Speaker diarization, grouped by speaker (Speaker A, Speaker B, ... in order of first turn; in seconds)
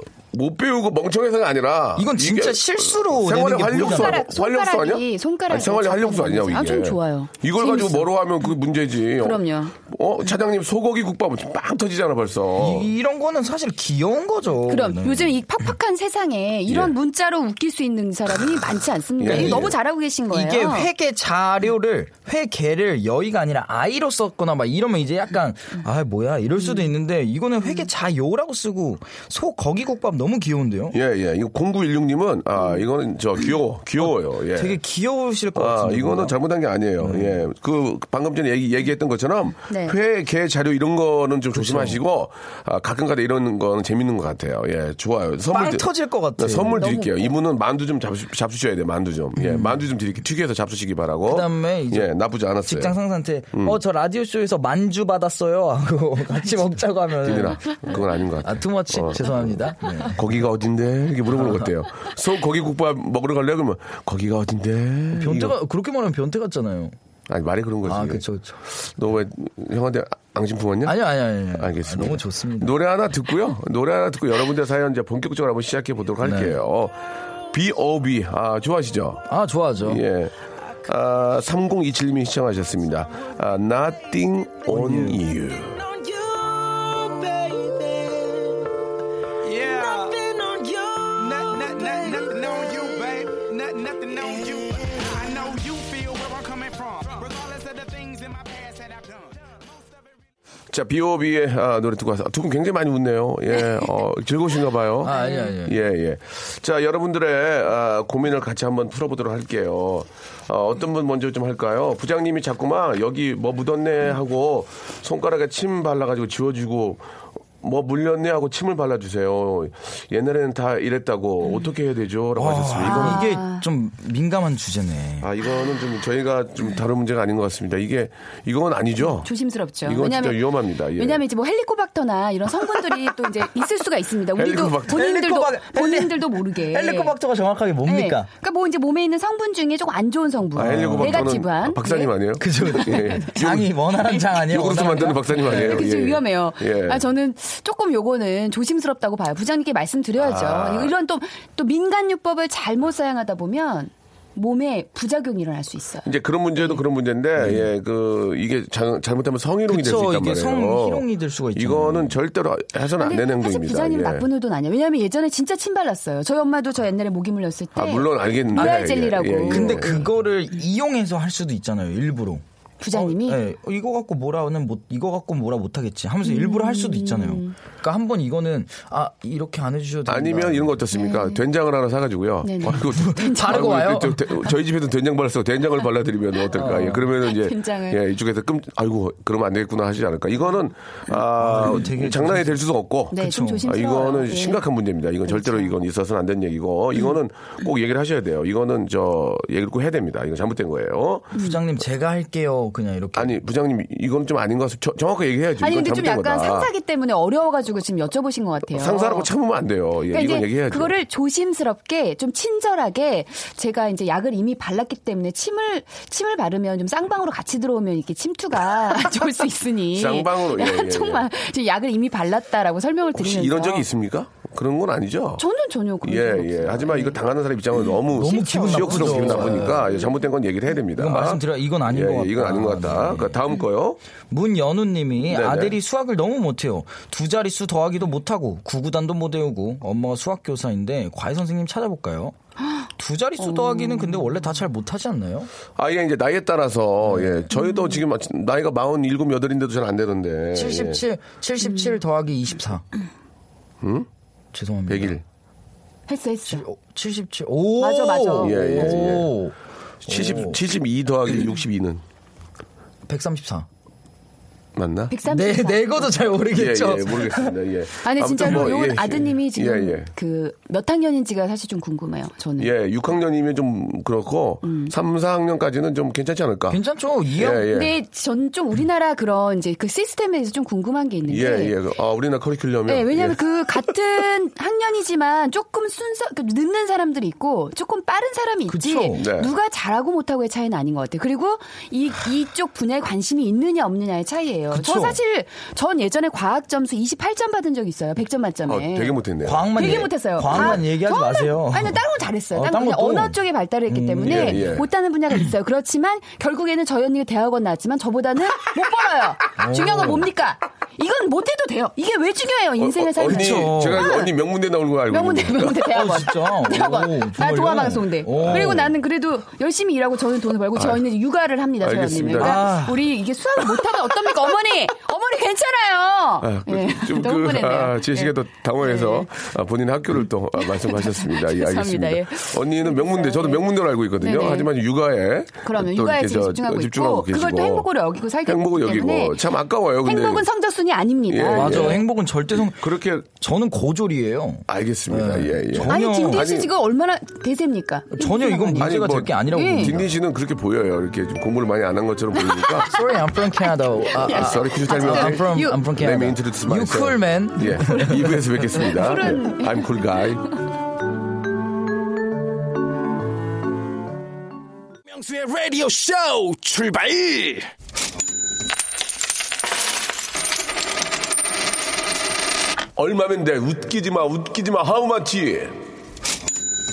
Speaker A: 0.3-12.9, 16.7-16.9, 19.2-19.8, 30.9-34.8, 35.5-53.0, 53.5-53.8, 57.2-65.5, 67.3-71.0, 71.6-79.2, 79.8-85.8, 100.7-117.0, 117.6-123.3, 125.2-129.3, 129.8-131.2, 134.3-135.1, 140.5-147.1, 150.2-150.9, 156.0-164.2, 167.8-170.0, 180.1-201.3, 203.2-206.7, 208.7-210.9, 219.9-221.3, 223.1-225.4, 226.0-234.0, 235.2-235.8, 245.8-251.0, 253.8-254.1, 254.9-255.2, 258.4-259.3, 260.0-262.0, 264.7-265.1, 266.5-270.1, 272.6-276.8, 277.3-277.9, 281.3-283.4, 289.1-289.5, 298.6-300.8, 304.2-304.9, 312.8-315.9, 318.4-318.9, 320.7-321.0, 321.8-322.7, 326.4-337.9, 338.4-340.5, 341.3-343.3, 344.7-346.7, 348.8-352.9, 354.2-360.5, 372.9-375.8
Speaker B: 2.0-4.2, 12.6-15.3, 19.2-19.7, 20.3-30.9, 34.5-36.4, 37.0-37.4, 41.5-42.0, 45.5-46.9, 49.4-49.8, 51.3-52.1, 52.6-57.8, 58.4-60.2, 65.1-66.9, 67.8-68.6, 70.8-72.7, 76.2-76.5, 79.3-80.0, 84.7-85.2, 105.0-105.8, 122.4-125.3, 134.9-138.3, 140.6-141.3, 142.4-145.8, 157.4-157.7, 159.7-162.2, 168.5-168.9, 169.5-180.7, 182.7-184.2, 186.5-187.0, 191.3-192.6, 193.2-193.7, 201.3-203.4, 228.1-229.8, 231.0-233.4, 234.3-242.3, 243.0-245.5, 247.1-247.4, 250.5-252.8, 254.5-255.2, 256.5-259.5, 260.1-260.6, 263.1-263.7, 265.3-267.5, 276.7-277.6, 288.7-289.2, 294.7-295.2, 299.4-304.7, 309.6-310.3, 313.2-314.0, 315.9-318.9, 322.4-323.0, 341.5-342.8, 343.3-346.5, 348.1-350.1, 352.9-358.6
Speaker C: 3.8-8.1, 9.2-9.8, 14.7-20.9, 26.6-26.9, 39.7-40.0, 46.8-47.1, 105.1-105.5, 122.8-123.6, 129.1-130.4, 131.0-137.1, 137.8-142.1, 142.7-143.1, 145.4-156.8, 163.0-170.1, 172.8-173.4, 176.2-177.6, 180.9-181.4, 182.4-183.8, 186.6-188.0, 193.1-194.6, 195.2-195.7, 205.6-209.3, 210.1-223.8, 225.4-227.2, 227.9-230.1, 243.4-244.4, 247.5-248.0, 251.6-251.9, 256.1-256.6, 257.8-259.1, 265.1-266.1, 268.0-272.7, 274.6-274.9, 277.6-281.7, 282.9-299.1, 299.7-314.3, 315.1-329.3, 330.7-334.7, 335.6-339.4, 340.0-342.0, 345.9-348.9, 349.4-350.0, 352.4-352.8, 354.2-355.8, 358.8-359.9
Speaker D: 85.9-88.4, 89.4-100.2
Speaker E: 365.1-367.7